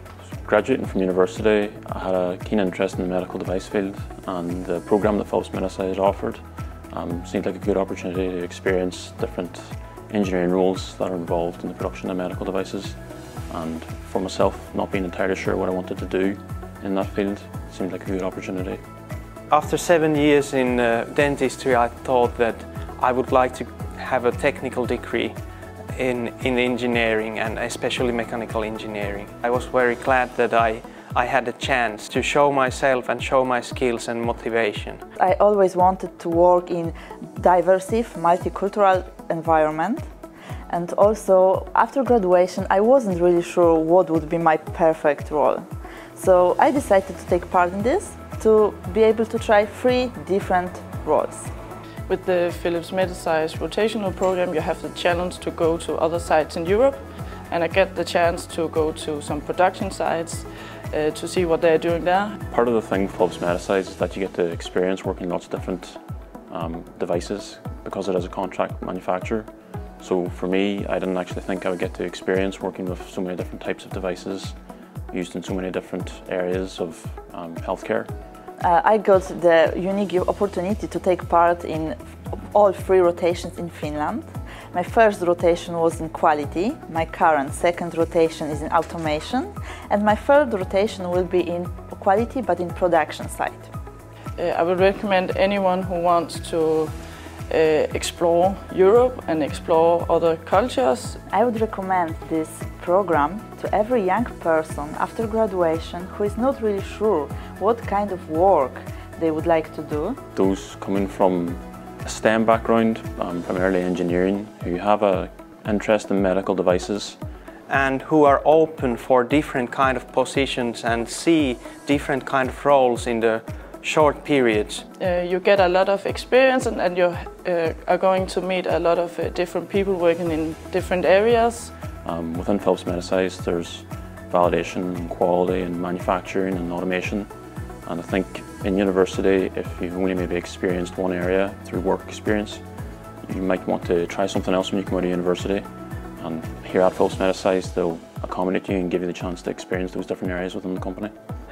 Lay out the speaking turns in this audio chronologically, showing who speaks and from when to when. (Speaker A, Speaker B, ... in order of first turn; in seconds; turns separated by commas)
Speaker A: 0.4-13.0, Speaker A: 13.5-18.8, Speaker B: 19.5-25.3, Speaker B: 25.9-35.0, Speaker C: 35.2-40.0, Speaker C: 40.7-51.5, Speaker D: 52.1-62.4, Speaker A: 62.5-69.5, Speaker A: 70.0-74.5, Speaker A: 75.1-78.1, Speaker C: 78.6-82.0, Speaker C: 82.5-93.7, Speaker D: 94.4-96.9, Speaker D: 97.5-101.2, Speaker C: 101.3-110.2, Speaker A: 110.3-117.2, Speaker B: 117.7-124.8, Speaker D: 125.0-131.7, Speaker A: 132.0-137.3, Speaker A: 137.8-142.6, Speaker A: 143.2-145.7, Speaker A: 146.2-151.1